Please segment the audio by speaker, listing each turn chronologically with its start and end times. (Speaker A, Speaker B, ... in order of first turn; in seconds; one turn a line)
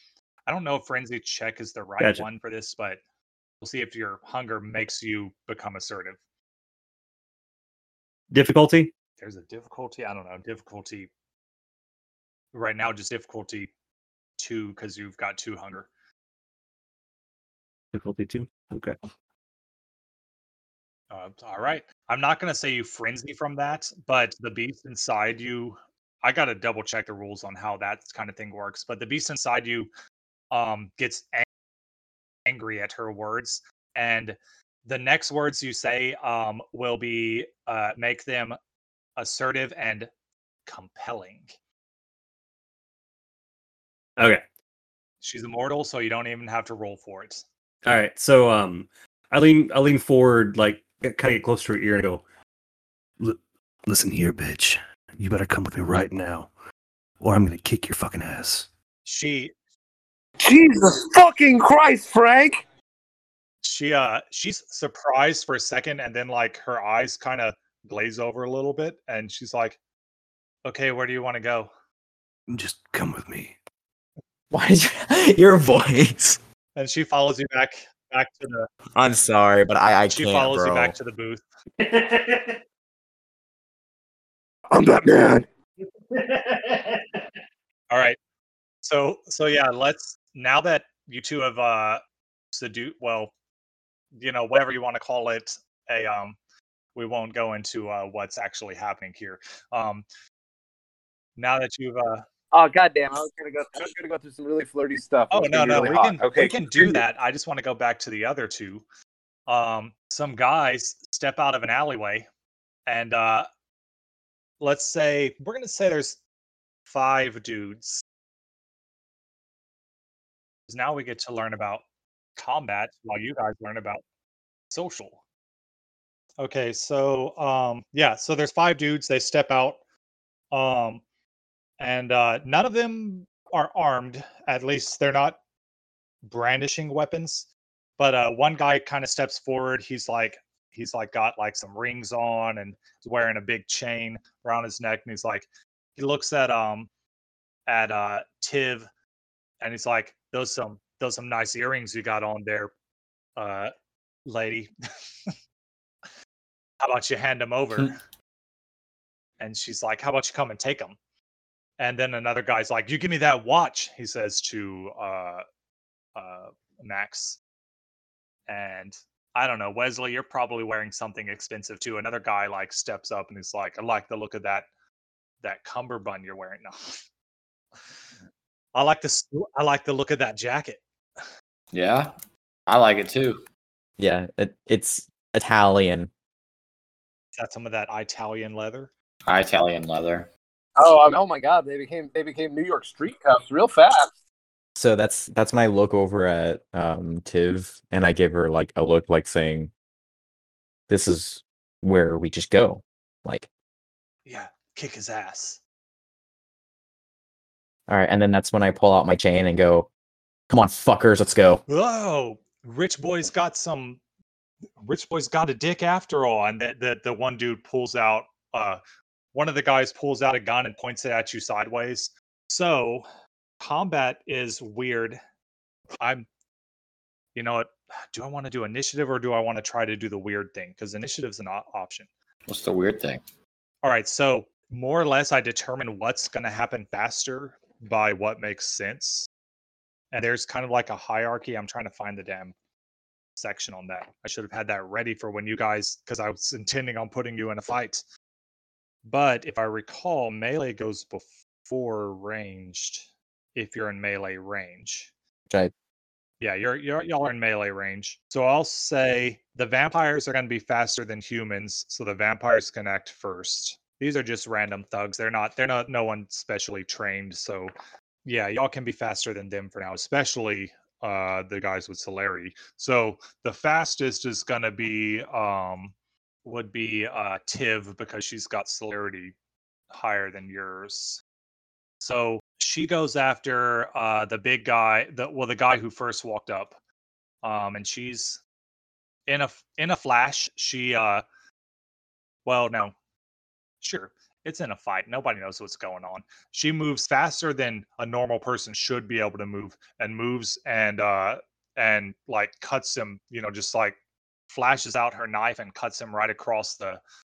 Speaker A: 0.5-3.0
Speaker B: 2.0-2.3
Speaker A: 3.6-6.2
Speaker B: 8.3-8.9
Speaker A: 9.2-11.1
Speaker A: 12.5-13.7
Speaker A: 14.4-15.9
Speaker B: 17.9-19.0
Speaker A: 21.1-29.9
Speaker A: 30.5-31.4
Speaker A: 32.5-38.6
Speaker A: 39.2-40.1
Speaker A: 40.7-41.5
Speaker B: 44.2-44.4
Speaker A: 45.2-47.5
Speaker B: 47.9-52.2
Speaker B: 53.2-56.5
Speaker B: 57.2-58.6
Speaker A: 59.0-59.5
Speaker C: 60.4-62.6
Speaker A: 63.6-69.8
Speaker A: 70.7-71.7
Speaker B: 72.5-73.5
Speaker D: 74.5-76.4
Speaker A: 76.8-78.7
Speaker D: 79.0-81.0
Speaker A: 80.1-81.4
Speaker B: 81.8-82.6
Speaker C: 84.7-85.5
Speaker B: 86.1-87.0
Speaker A: 87.9-88.2
Speaker A: 88.8-93.3
Speaker A: 94.1-96.4
Speaker A: 97.0-100.0
Speaker A: 101.4-102.3
Speaker C: 102.5-107.0
Speaker A: 105.3-108.8
Speaker A: 109.5-112.3
Speaker A: 112.9-113.5
Speaker A: 114.6-116.2
Speaker A: 116.9-118.0
Speaker A: 120.7-121.8
Speaker A: 122.4-124.0
Speaker A: 124.7-125.2
Speaker A: 126.4-129.8
Speaker A: 130.5-131.0
Speaker A: 131.8-135.4
Speaker A: 136.2-137.5
Speaker A: 138.0-146.9
Speaker A: 147.7-148.9
Speaker A: 149.6-152.7
Speaker A: 153.4-153.7
Speaker A: 154.2-154.7
Speaker A: 156.8-157.9
Speaker A: 159.4-161.0
Speaker A: 161.8-165.4
Speaker A: 166.2-167.4
Speaker A: 168.5-174.7
Speaker A: 175.4-177.0
Speaker A: 178.8-181.2
Speaker E: 181.7-182.2
Speaker E: 182.7-183.4
Speaker D: 184.0-186.1
Speaker A: 187.4-188.9
Speaker E: 189.3-190.3
Speaker C: 190.8-194.1
Speaker D: 194.8-199.7
Speaker D: 200.9-203.5
Speaker A: 204.3-205.6
Speaker D: 207.9-209.9
Speaker D: 210.5-211.6
Speaker A: 211.7-214.0
Speaker A: 214.8-218.8
Speaker A: 219.3-223.1
Speaker A: 223.6-225.2
Speaker A: 226.0-226.3
Speaker A: 227.3-232.1
Speaker E: 232.5-233.2
Speaker A: 233.8-239.3
Speaker A: 240.1-242.5
Speaker A: 243.4-248.0
Speaker A: 249.1-255.1
Speaker A: 256.4-267.7
Speaker A: 268.2-275.9
Speaker A: 276.4-279.3
Speaker A: 279.9-281.2
Speaker A: 282.0-286.8
Speaker A: 287.4-288.4
Speaker A: 289.3-291.2
Speaker A: 292.5-292.9
Speaker A: 293.8-304.0
Speaker A: 304.5-307.0